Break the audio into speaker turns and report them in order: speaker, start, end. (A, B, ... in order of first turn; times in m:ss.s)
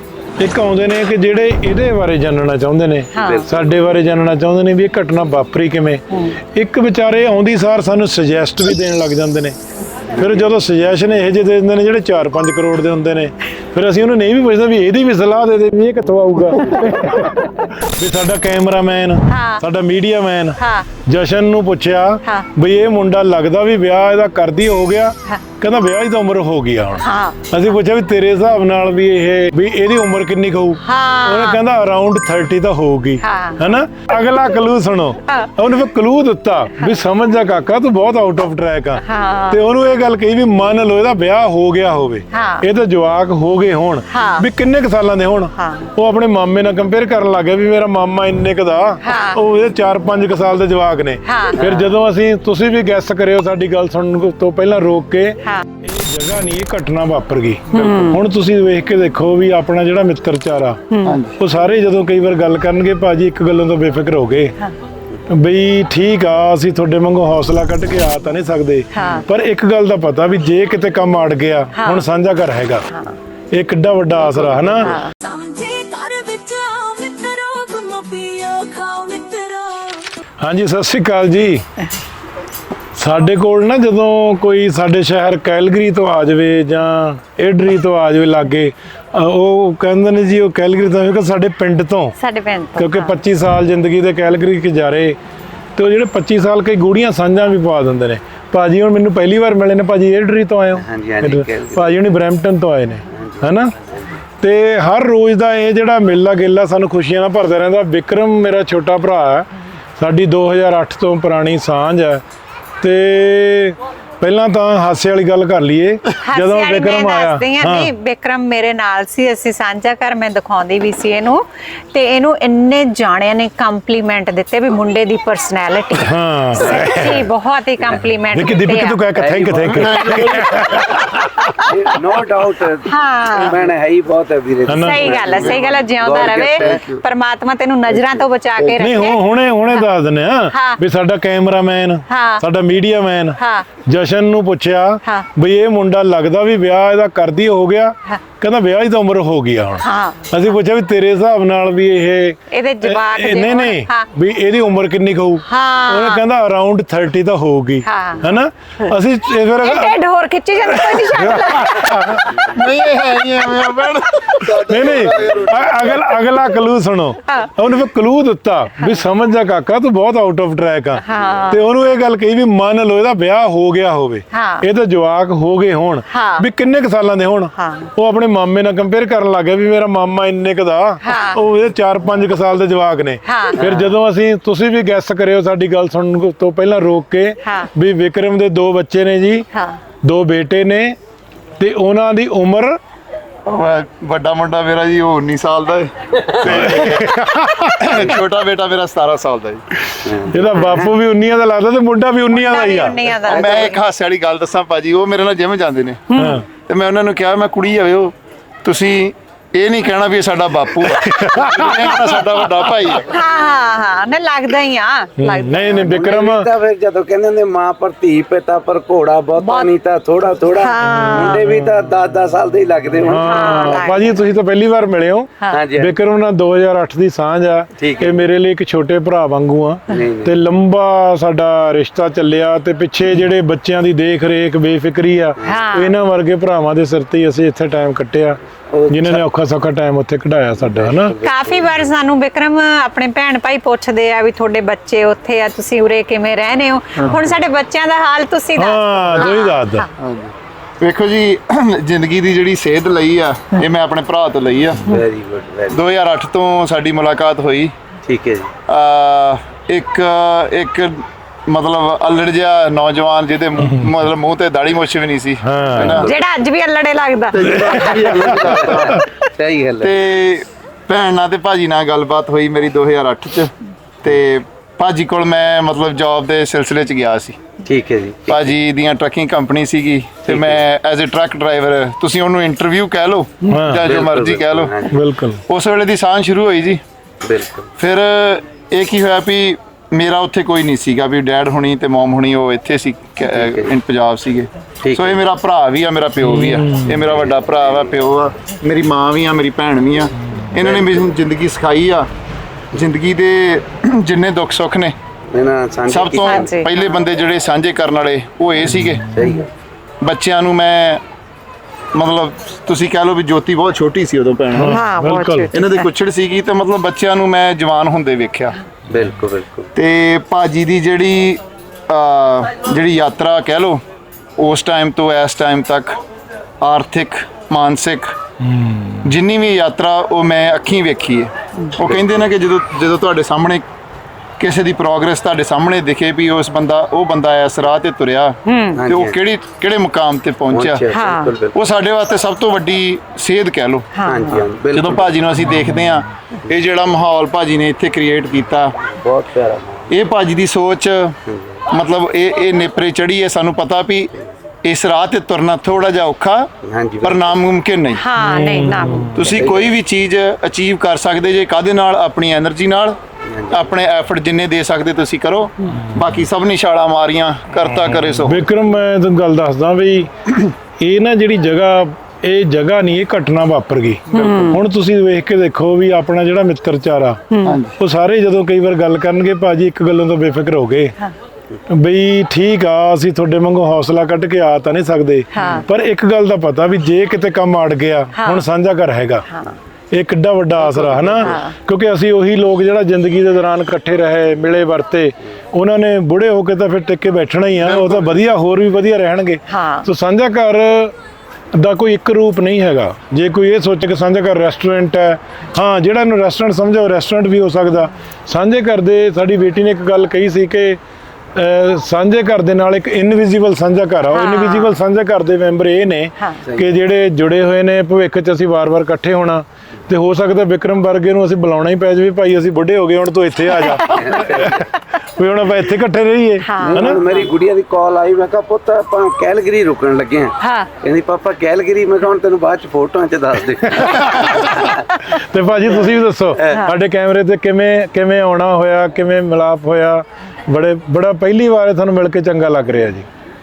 0:00.4-0:09.6 A
0:03.1-0:03.4 B
0:03.2-0:03.8 C
0:10.2-0:10.5 C
0:10.2-1:00.8 A
0:19.3-0:19.6 B
0:20.6-0:20.9 B
0:27.0-0:27.5 B
0:30.8-0:31.6 B
0:33.2-0:33.8 B
0:35.3-0:35.5 B
0:39.0-0:39.6 B
0:42.3-0:42.7 B
0:44.1-0:44.5 B
0:45.6-0:45.9 B
0:49.0-0:49.4 B
0:51.3-0:51.6 B
0:51.5-0:52.0 C
0:57.7-0:58.0 D
0:57.7-0:58.2 B
1:00.9-1:01.2 B
1:01.0-1:01.4 D
1:01.4-1:04.6 A
1:05.3-1:12.9 A
1:08.9-1:09.2 B
1:11.7-1:12.1 B
1:12.9-1:13.2 B
1:13.5-1:15.0 A
1:14.3-1:15.0 C
1:14.9-1:15.2 B
1:15.2-1:20.1 E
1:20.4-1:21.6 A
1:23.0-1:32.2 A
1:32.2-1:33.2 B
1:32.8-1:35.2 A
1:35.8-1:43.7 A
1:40.8-1:42.1 C
1:43.1-1:44.2 C
1:44.4-1:52.2 A
1:52.8-1:57.9 A
1:56.2-2:09.1 B
2:06.0-2:07.3 A
2:06.6-2:07.1 C
2:08.3-2:11.6 A
2:09.2-2:09.9 C
2:09.6-2:11.0 D
2:11.7-2:16.8 C
2:12.8-2:13.6 B
2:14.7-2:15.3 A
2:14.7-2:19.2 B
2:16.0-2:17.0 D
2:17.9-2:18.8 C
2:18.8-2:40.0 A
2:20.5-2:20.8 B
2:22.1-2:22.4 B
2:23.4-2:23.7 B
2:29.8-2:30.5 B
2:32.5-2:34.1 B
2:35.5-2:36.2 B
2:37.8-2:38.3 B
2:39.6-2:42.2 B
2:40.7-2:42.5 A
2:42.3-2:46.1 D
2:44.5-3:09.5 A
2:47.3-2:47.5 B
2:48.8-2:49.0 B
2:51.0-2:51.6 B
2:54.3-2:54.7 B
2:56.1-2:56.5 B
2:57.6-2:57.9 B
3:01.0-3:01.4 B
3:03.3-3:03.6 B
3:03.6-3:04.0 C
3:07.4-3:07.7 B
3:09.5-3:09.8 B
3:10.0-3:11.0 A
3:11.6-3:12.8 A
3:13.5-3:19.7 D
3:16.4-3:18.0 A
3:19.9-3:23.0 A
3:20.0-3:21.0 C
3:22.3-3:23.8 B
3:23.2-3:26.0 D
3:23.3-3:23.6 C
3:26.1-3:26.4 B
3:26.2-3:26.4 A
3:26.6-3:33.1 D
3:30.9-3:32.2 A
3:33.1-3:35.9 B
3:35.2-3:36.5 A
3:35.7-3:43.8 C
3:39.4-3:39.7 B
3:40.6-3:41.4 B
3:43.1-3:58.4 A
3:43.1-3:44.1 B
3:45.5-3:45.9 C
3:47.8-3:48.2 C
3:49.9-3:50.4 C
3:55.4-3:55.7 C
3:55.4-3:55.9 B
3:58.7-3:59.2 C
3:58.9-4:01.1 A
4:00.6-4:01.7 C
4:01.2-4:09.9 B
4:08.6-4:09.9 A
4:10.0-4:15.0 D
4:14.9-4:15.8 C
4:15.7-4:17.7 D
4:18.1-4:18.5 C
4:18.7-4:26.2 D
4:25.4-4:26.1 A
4:25.8-4:26.2 C
4:26.1-4:28.2 B
4:27.3-4:29.0 D
4:27.5-4:29.0 A
4:28.2-4:29.9 C
4:29.8-4:37.4 D
4:37.6-4:38.6 C
4:38.3-4:44.8 D
4:40.3-4:40.6 C
4:43.5-4:43.9 A
4:43.8-4:45.0 C
4:44.9-4:45.4 A
4:45.5-4:46.8 D
4:47.2-4:47.7 C
4:47.8-5:02.1 D
4:53.3-4:53.7 C
4:54.8-4:55.2 C
4:56.2-4:57.0 A
4:57.1-4:58.0 C
5:00.6-5:01.2 C
5:02.7-5:05.0 D
5:05.3-5:06.6 C
5:05.9-5:09.1 D
5:06.1-5:07.0 B
5:09.0-5:09.5 C
5:10.0-5:11.0 D
5:11.9-5:14.8 D
5:14.6-5:15.5 A
5:14.6-5:15.9 B
5:15.5-5:18.6 D
5:18.9-5:19.7 C
5:19.8-5:23.8 D
5:24.4-5:26.0 D
5:26.6-5:28.1 D
5:28.5-5:29.1 A
5:29.0-5:33.6 D
5:31.8-5:32.3 C
5:34.4-5:40.8 D
5:38.5-5:38.8 B
5:38.8-5:39.2 C
5:40.5-5:41.6 C
5:40.9-5:41.4 B
5:41.5-5:43.9 D
5:44.0-5:44.4 B
5:44.1-5:45.2 C
5:44.6-5:48.7 D
5:48.8-5:49.9 C
5:49.9-5:51.2 D
5:51.3-5:51.7 C
5:51.7-5:54.1 D
5:54.6-5:56.5 D
5:56.7-5:57.4 C
5:57.0-5:58.0 D
5:58.0-5:59.2 B
5:58.2-5:59.2 A
5:59.1-6:03.0 D
5:59.2-5:59.7 C
6:03.3-6:03.7 C
6:03.5-6:08.5 D
6:08.2-6:10.1 A
6:10.8-6:17.2 A
6:14.1-6:14.5 D
6:14.1-6:14.6 B
6:17.3-6:17.6 B
6:17.4-6:17.8 D
6:17.8-6:21.0 A
6:21.7-6:29.3 A
6:25.3-6:25.6 B
6:28.2-6:28.4 B
6:29.3-6:29.6 B
6:29.9-6:40.9 A
6:30.7-6:31.4 C
6:31.3-6:31.5 B
6:37.6-6:38.2 D
6:39.5-6:39.9 B
6:41.5-6:50.8 A
6:51.4-7:07.0 A
6:54.1-6:54.8 B
6:56.4-6:56.7 C
7:03.8-7:04.7 C
7:06.4-7:06.9 B
7:06.6-7:14.8 C
7:10.4-7:10.7 B
7:13.7-7:23.1 A
7:15.6-7:16.6 C